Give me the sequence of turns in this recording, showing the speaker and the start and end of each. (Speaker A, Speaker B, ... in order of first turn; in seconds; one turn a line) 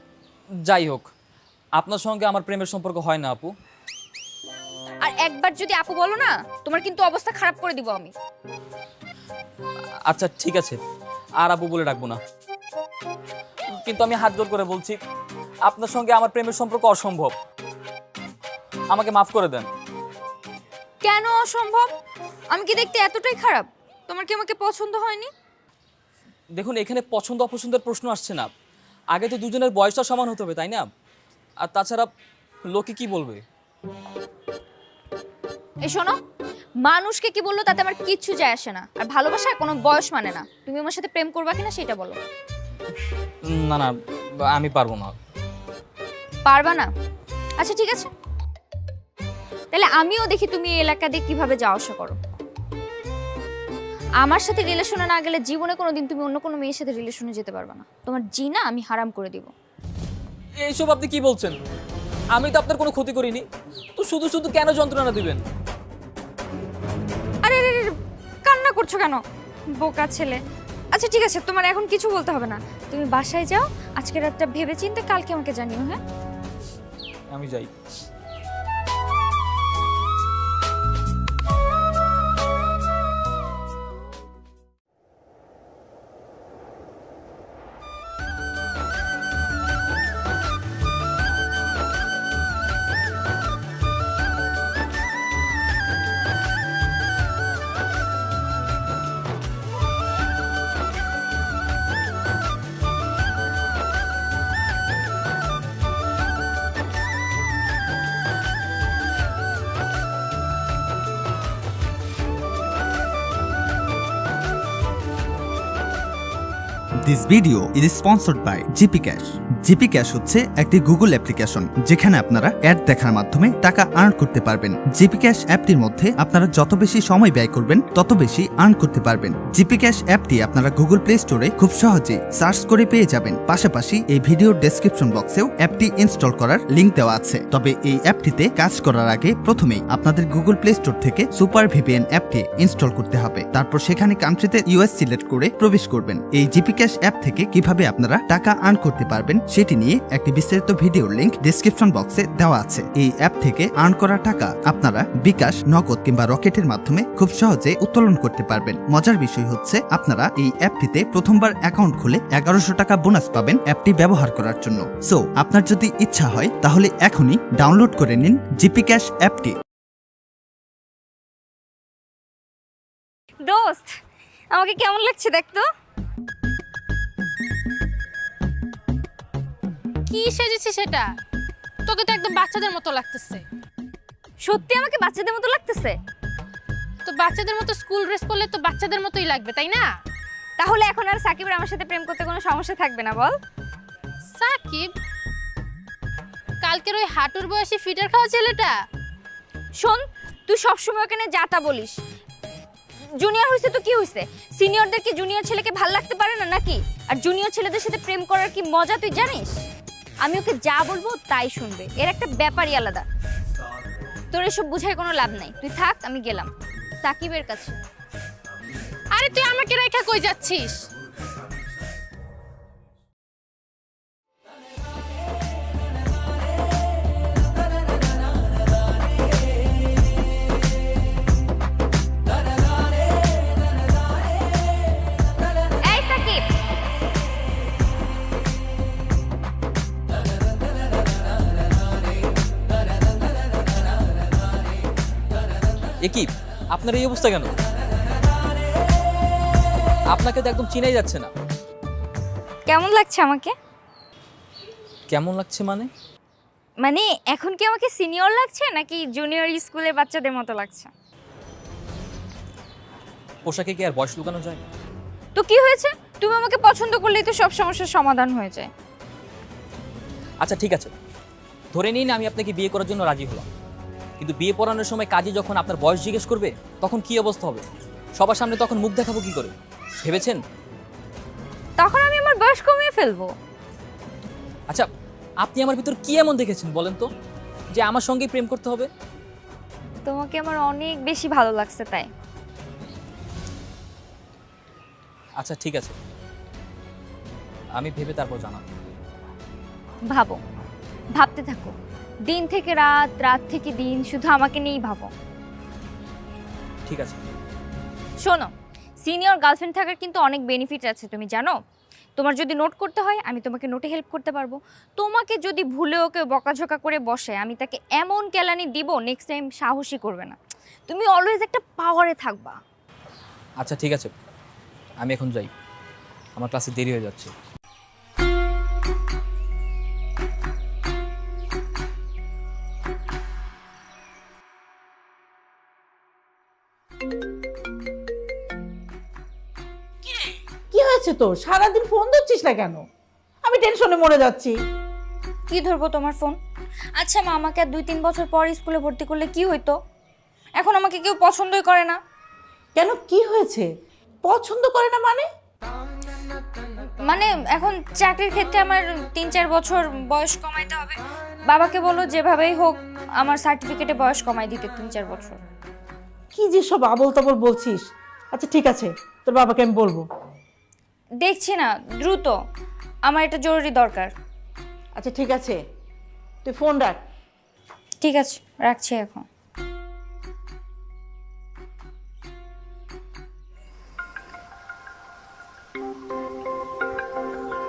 Speaker A: 0.7-1.1
Speaker A: 1.8-3.5
Speaker B: 5.0-8.1
Speaker A: 10.1-10.8
Speaker A: 11.4-12.2
Speaker A: 13.7-15.0
Speaker A: 15.7-17.4
Speaker A: 18.9-19.7
Speaker B: 21.0-21.9
Speaker B: 22.5-25.3
Speaker A: 26.6-28.5
Speaker A: 29.1-30.9
Speaker A: 31.6-32.1
Speaker A: 32.7-33.4
Speaker B: 35.9-36.2
Speaker B: 36.8-42.2
Speaker A: 43.5-43.9
Speaker A: 44.5-45.1
Speaker B: 46.5-46.9
Speaker B: 47.6-48.1
Speaker B: 49.7-52.2
Speaker B: 54.2-59.5
Speaker A: 60.6-61.6
Speaker A: 62.4-63.5
Speaker A: 64.0-65.4
Speaker B: 67.4-67.9
Speaker B: 68.5-69.2
Speaker B: 69.8-70.4
Speaker B: 70.9-76.0
Speaker A: 77.3-77.7
Speaker C: 117.1-169.6
Speaker B: 173.4-174.0
Speaker B: 174.5-175.7
Speaker D: 180.1-181.1
Speaker D: 181.9-183.4
Speaker B: 184.4-186.0
Speaker D: 187.1-189.9
Speaker B: 190.6-193.4
Speaker D: 194.4-194.9
Speaker D: 196.6-198.7
Speaker B: 199.8-202.0
Speaker B: 203.2-209.6
Speaker B: 210.2-213.1
Speaker B: 214.3-216.5
Speaker B: 217.0-217.8
Speaker D: 219.2-220.9
Speaker B: 235.8-236.5
Speaker A: 246.0-247.5
Speaker A: 250.1-251.3
Speaker B: 252.7-253.5
Speaker A: 255.1-255.9
Speaker B: 256.8-260.9
Speaker A: 263.4-264.6
Speaker B: 265.4-268.7
Speaker A: 270.4-270.9
Speaker A: 271.7-273.5
Speaker A: 274.2-277.6
Speaker A: 278.2-280.4
Speaker B: 281.8-283.4
Speaker A: 285.4-287.1
Speaker A: 287.8-288.9
Speaker B: 290.1-292.1
Speaker A: 295.4-295.9
Speaker A: 297.8-298.9
Speaker B: 300.1-300.4
Speaker B: 301.2-301.7
Speaker B: 302.3-305.1
Speaker A: 306.9-307.3
Speaker B: 308.2-308.5
Speaker B: 309.0-311.6
Speaker B: 312.2-320.4
Speaker B: 320.9-322.6
Speaker A: 323.6-324.1
Speaker A: 325.0-325.5
Speaker A: 326.4-327.3
Speaker E: 340.7-342.8
Speaker E: 343.4-344.5
Speaker B: 345.5-346.4
Speaker B: 347.0-349.8
Speaker B: 350.6-352.0
Speaker E: 352.8-353.7
Speaker E: 354.3-355.3
Speaker B: 357.1-365.4
Speaker E: 366.3-367.8
Speaker E: 368.3-370.1
Speaker B: 371.2-372.3
Speaker B: 373.1-374.1
Speaker E: 375.0-375.6
Speaker E: 376.4-377.0
Speaker B: 378.0-379.3